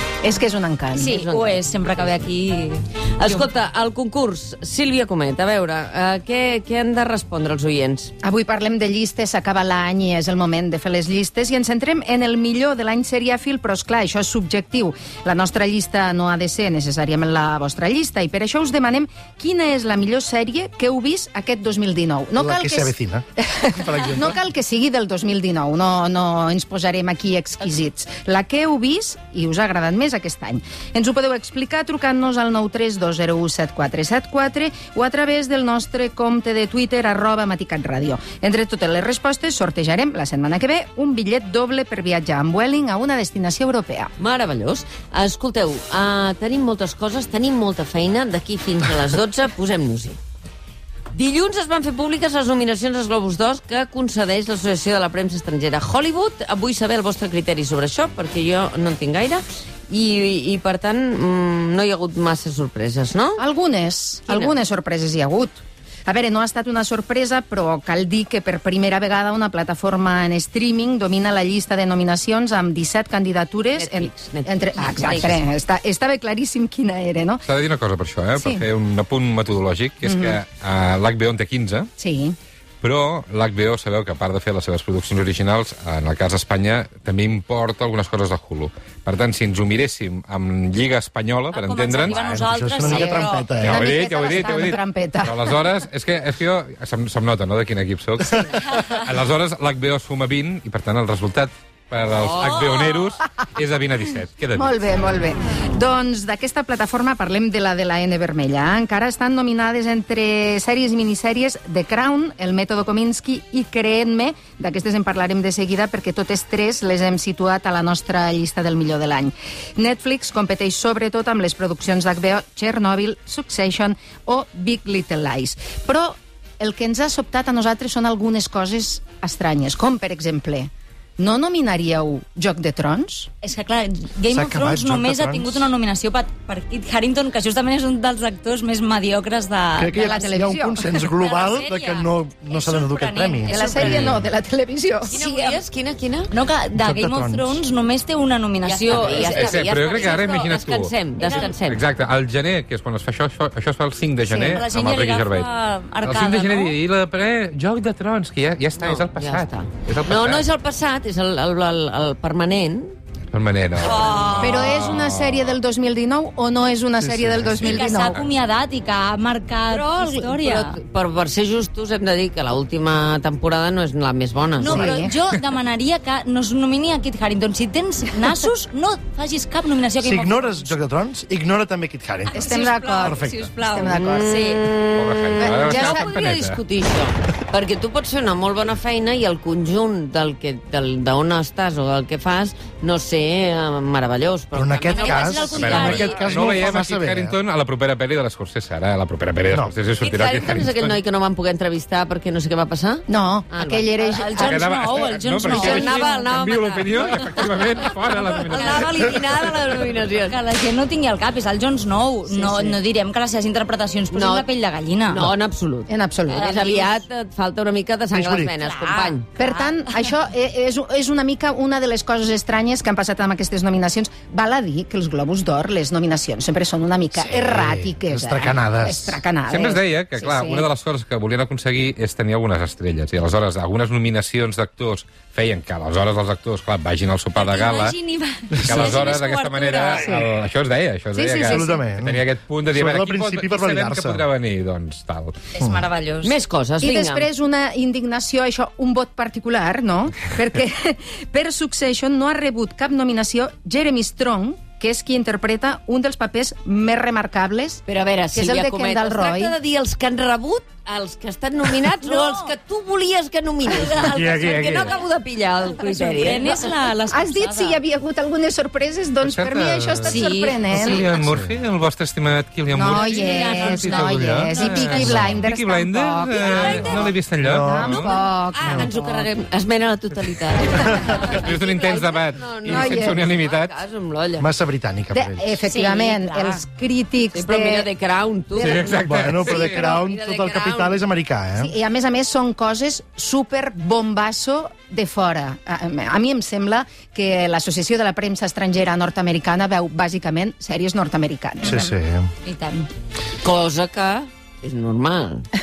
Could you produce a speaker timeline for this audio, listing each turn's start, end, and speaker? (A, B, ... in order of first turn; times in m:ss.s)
0:00.2-0:01.1 A
0:00.9-0:03.4 B
0:01.0-0:02.1 C
0:03.2-0:08.1 C
0:08.2-0:44.1 A
0:22.4-0:24.4 D
0:44.2-0:50.2 C
0:51.1-1:03.4 C
1:03.4-1:17.4 A
1:04.3-1:04.5 C
1:13.7-1:15.4 C
1:15.0-1:15.3 B
1:17.4-1:21.9 E
1:18.4-1:18.6 A
1:20.0-1:20.4 A
1:22.0-1:22.4 A
1:22.8-1:32.2 E
1:31.5-1:33.5 B
1:32.0-1:33.9 D
1:32.8-1:35.6 A
1:33.6-1:44.7 E
1:42.2-1:42.6 C
1:42.4-1:43.0 B
1:44.5-2:13.3 A
2:13.4-2:20.3 B
2:14.3-2:15.7 D
2:19.8-2:24.2 D
2:19.9-2:21.1 A
2:21.2-2:24.1 B
2:23.5-2:25.1 A
2:25.0-2:25.6 B
2:25.1-2:26.3 C
2:26.3-2:30.2 B
2:26.8-2:27.6 D
2:28.6-2:31.8 C
2:29.2-2:35.5 E
2:31.2-2:31.5 B
2:34.2-2:34.6 A
2:34.5-2:36.7 B
2:36.0-2:40.5 E
2:38.8-2:43.0 C
2:43.3-2:45.5 E
2:43.8-2:44.8 B
2:44.4-2:48.1 A
2:47.0-2:47.5 D
2:47.6-2:50.8 B
2:49.7-2:55.0 C
2:54.6-3:00.7 B
2:54.6-2:55.1 A
3:00.0-3:03.5 D
3:02.3-3:04.6 B
3:02.3-3:04.3 A
3:03.8-3:15.8 C
3:05.0-3:06.6 E
3:05.4-3:06.1 A
3:14.5-3:17.4 D
3:14.8-3:16.3 B
3:15.5-3:21.0 E
3:20.0-3:23.9 C
3:23.1-3:24.7 A
3:24.0-3:26.3 B
3:24.3-3:29.2 E
3:25.5-3:27.5 C
3:28.3-3:30.4 C
3:28.5-3:29.1 B
3:30.3-3:35.3 B
3:32.3-3:32.8 A
3:34.1-3:34.4 C
3:35.1-3:39.3 C
3:35.9-3:36.8 A
3:36.3-3:37.0 B
3:38.1-3:38.5 D
3:38.6-3:40.0 B
3:39.4-3:50.6 A
3:47.3-3:49.2 D
3:49.5-3:58.0 E
3:57.4-4:00.1 B
3:58.6-4:05.4 E
3:58.6-3:58.9 D
4:01.1-4:01.8 A
4:01.4-4:04.2 D
4:05.6-4:06.3 B
4:06.2-4:07.3 C
4:06.8-4:17.8 A
4:17.9-4:26.6 C
4:18.3-4:19.6 A
4:22.0-4:22.5 B
4:23.7-4:24.2 B
4:24.2-4:24.9 E
4:25.8-4:27.8 B
4:27.1-4:31.1 A
4:29.2-4:38.1 E
4:30.0-4:30.8 B
4:31.2-4:31.5 D
4:32.7-4:39.3 A
4:32.8-4:35.3 B
4:36.4-4:37.0 B
4:37.4-4:38.1 D
4:38.5-4:44.5 C
4:41.3-4:43.8 E
4:42.7-4:43.2 A
4:44.4-4:45.5 D
4:45.1-4:47.9 A
4:45.7-4:46.6 B
4:47.3-4:51.0 C
4:48.6-4:49.8 E
4:48.7-4:51.7 D
4:51.6-5:01.9 A
5:01.6-5:02.3 D
5:01.6-5:01.9 B
5:02.4-5:02.9 B
5:03.4-5:05.5 C